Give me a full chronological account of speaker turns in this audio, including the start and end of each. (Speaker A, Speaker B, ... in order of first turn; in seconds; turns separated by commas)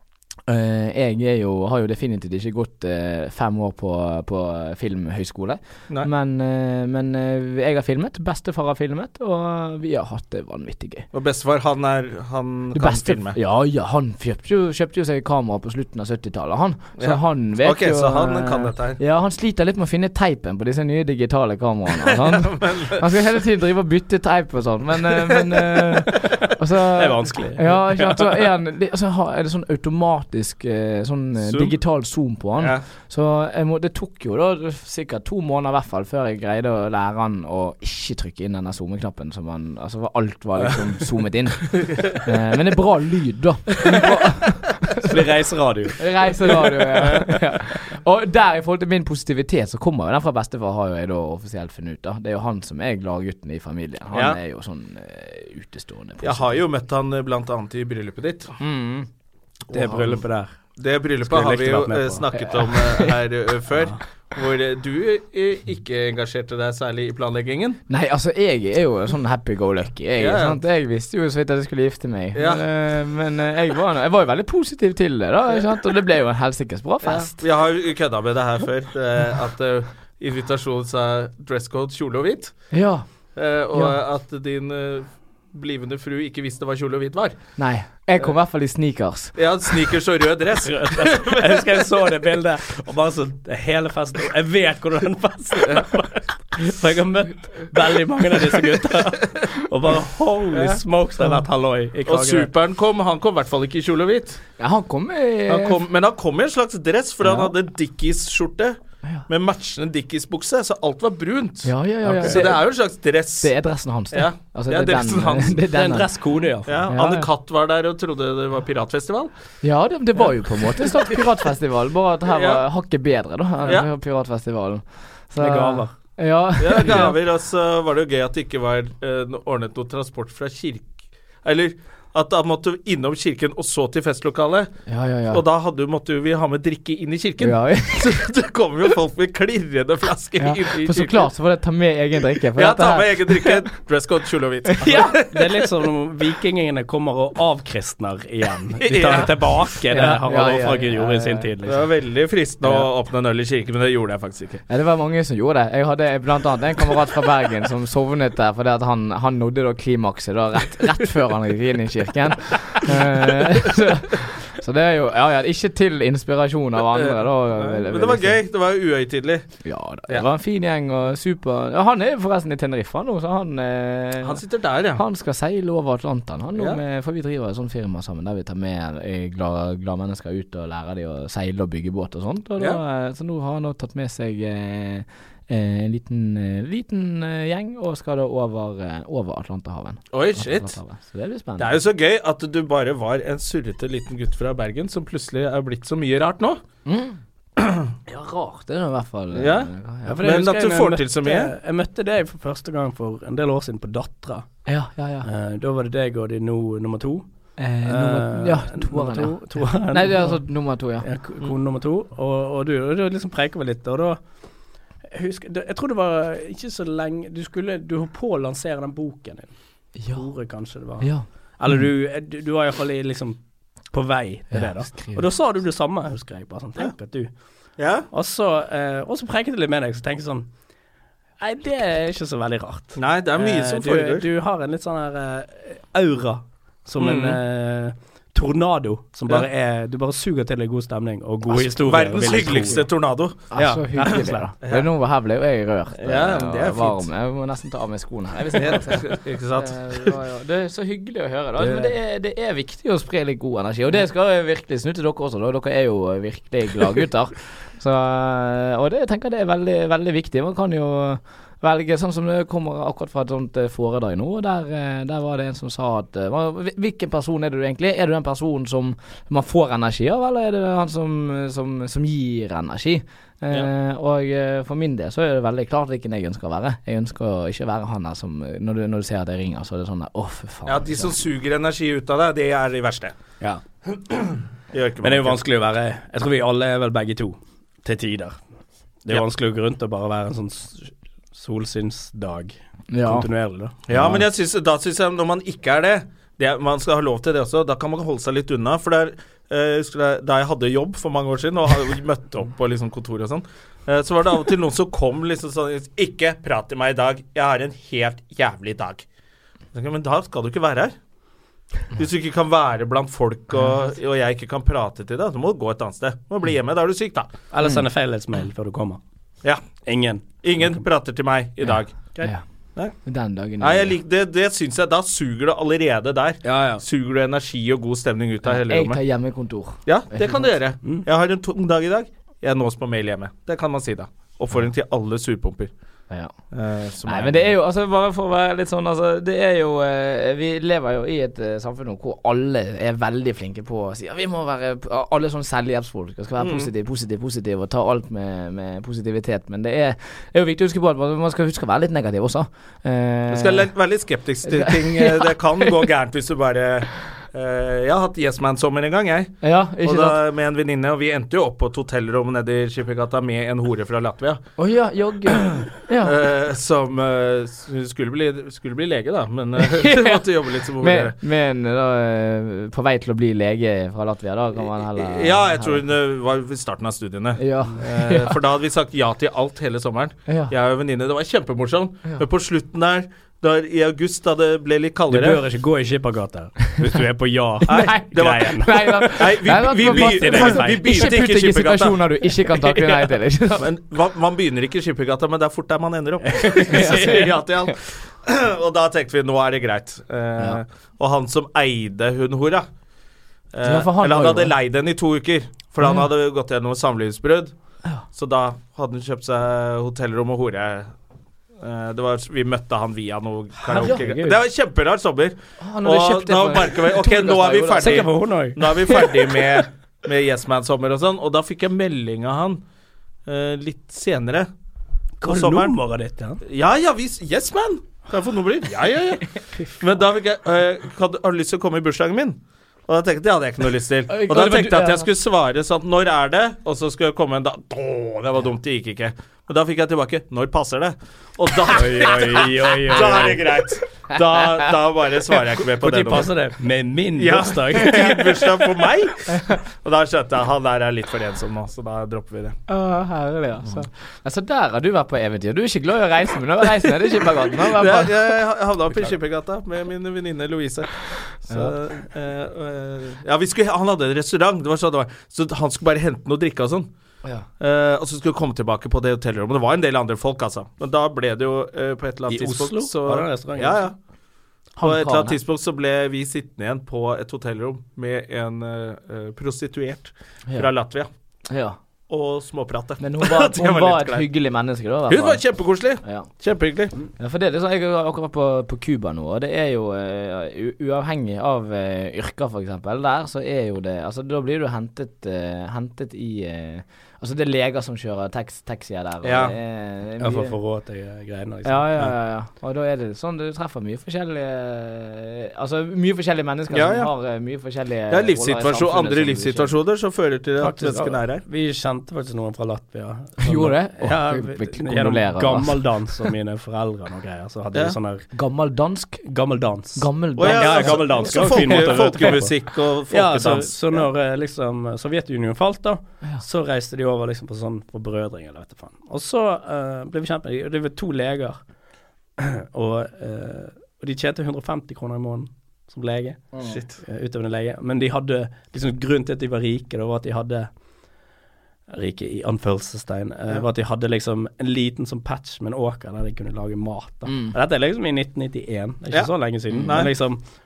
Speaker A: 0.5-11.1, Speaker B: 11.1-13.4, Speaker A: 12.7-45.1, Speaker B: 17.0-19.0, Speaker B: 22.2-23.0, Speaker C: 27.0-28.4, Speaker B: 31.4-31.7, Speaker B: 32.6-32.8, Speaker C: 45.0-47.4, Speaker A: 46.0-56.6, Speaker B: 54.1-54.4, Speaker B: 56.2-58.6, Speaker A: 58.6-59.1, Speaker B: 59.7-60.2, Speaker C: 59.7-60.6, Speaker B: 60.8-67.8, Speaker C: 61.2-62.7, Speaker A: 67.9-77.3, Speaker B: 70.2-70.6, Speaker B: 72.3-72.6, Speaker B: 77.0-82.7, Speaker A: 82.7-83.0, Speaker B: 83.3-87.4, Speaker A: 87.6-89.3, Speaker B: 89.3-91.6, Speaker C: 90.6-102.5, Speaker B: 100.5-100.8, Speaker B: 102.1-104.4, Speaker A: 104.6-105.8, Speaker B: 105.5-113.5, Speaker A: 107.2-107.5, Speaker A: 111.6-116.1, Speaker B: 114.1-115.6, Speaker C: 115.6-116.8, Speaker B: 116.7-119.3, Speaker A: 116.9-117.3, Speaker A: 119.6-127.1, Speaker B: 122.3-122.6, Speaker C: 125.4-125.9, Speaker B: 126.6-134.7, Speaker A: 134.9-135.4, Speaker B: 135.3-141.3, Speaker A: 137.4-138.2, Speaker A: 140.4-143.7, Speaker B: 142.5-145.5, Speaker A: 144.7-145.2, Speaker C: 144.9-151.8, Speaker B: 148.8-150.1, Speaker A: 149.9-151.5, Speaker B: 151.6-154.6, Speaker A: 152.6-152.9, Speaker A: 154.7-168.4, Speaker B: 166.9-169.5, Speaker A: 169.6-174.4, Speaker B: 174.2-175.0, Speaker A: 174.9-191.8, Speaker B: 190.1-190.8, Speaker B: 191.6-196.6, Speaker A: 196.8-197.2, Speaker B: 197.6-197.9, Speaker A: 198.1-200.2, Speaker B: 199.3-201.5, Speaker C: 200.1-204.6, Speaker A: 204.7-205.3, Speaker C: 205.2-210.5, Speaker A: 207.6-211.1, Speaker C: 211.0-214.2, Speaker C: 215.1-227.3, Speaker A: 220.0-220.3, Speaker A: 220.9-221.8, Speaker A: 224.5-225.2, Speaker B: 227.8-228.1, Speaker C: 228.1-230.5, Speaker C: 231.4-242.9, Speaker B: 232.9-234.2, Speaker B: 237.0-237.4, Speaker B: 241.5-243.5, Speaker A: 243.5-281.1, Speaker C: 243.5-244.5, Speaker B: 244.0-244.9, Speaker B: 246.0-247.1, Speaker B: 248.6-250.1, Speaker C: 251.6-251.9, Speaker B: 280.6-283.1, Speaker B: 283.9-285.4, Speaker C: 285.0-288.4, Speaker C: 289.0-293.8, Speaker A: 292.9-293.3, Speaker B: 293.9-309.0, Speaker A: 293.9-294.2, Speaker B: 309.7-310.9, Speaker B: 311.9-317.3, Speaker C: 317.5-319.0, Speaker B: 319.4-319.8, Speaker C: 319.8-320.8, Speaker B: 320.4-322.2, Speaker A: 323.0-323.9, Speaker B: 323.6-329.0, Speaker C: 326.4-326.8, Speaker A: 328.4-330.5, Speaker B: 329.9-335.7, Speaker A: 336.1-336.4, Speaker B: 336.5-337.5, Speaker A: 337.0-353.7, Speaker B: 346.4-346.7, Speaker B: 353.3-364.4, Speaker A: 354.4-355.7, Speaker A: 359.4-360.2, Speaker A: 364.6-366.1, Speaker B: 365.4-371.1, Speaker A: 369.6-375.8, Speaker B: 374.9-385.4, Speaker A: 377.4-378.3, Speaker A: 380.3-380.5, Speaker C: 385.1-391.1, Speaker B: 387.7-392.0, Speaker A: 387.7-393.6, Speaker B: 393.6-402.6, Speaker C: 396.2-397.2, Speaker A: 396.7-397.7, Speaker B: 403.5-407.5, Speaker A: 403.6-404.5, Speaker B: 408.1-410.9, Speaker B: 411.6-422.6, Speaker C: 413.6-414.4, Speaker A: 415.6-418.1, Speaker C: 417.8-419.4, Speaker B: 423.2-424.5, Speaker C: 425.2-426.4, Speaker B: 425.2-425.7, Speaker B: 426.4-446.3, Speaker A: 434.1-435.1, Speaker C: 441.7-443.4, Speaker C: 445.8-448.4, Speaker B: 447.2-452.6, Speaker A: 452.7-458.3, Speaker B: 457.6-466.9, Speaker B: 467.6-473.9, Speaker C: 472.3-473.8, Speaker A: 474.8-475.4, Speaker B: 474.8-481.1, Speaker A: 481.5-481.8, Speaker B: 482.1-484.3, Speaker A: 483.0-486.3, Speaker B: 485.1-486.9, Speaker A: 487.2-500.6, Speaker B: 499.2-499.5, Speaker C: 500.2-502.0, Speaker A: 501.6-509.7, Speaker B: 506.7-507.1, Speaker B: 508.1-511.4, Speaker C: 510.6-518.3, Speaker A: 513.4-516.0, Speaker A: 518.3-519.3, Speaker C: 519.2-531.6, Speaker A: 519.9-521.9, Speaker B: 520.4-524.0, Speaker C: 532.4-540.7, Speaker B: 536.6-537.0, Speaker C: 541.9-550.4, Speaker A: 547.3-547.5, Speaker B: 549.1-550.1, Speaker A: 549.7-550.0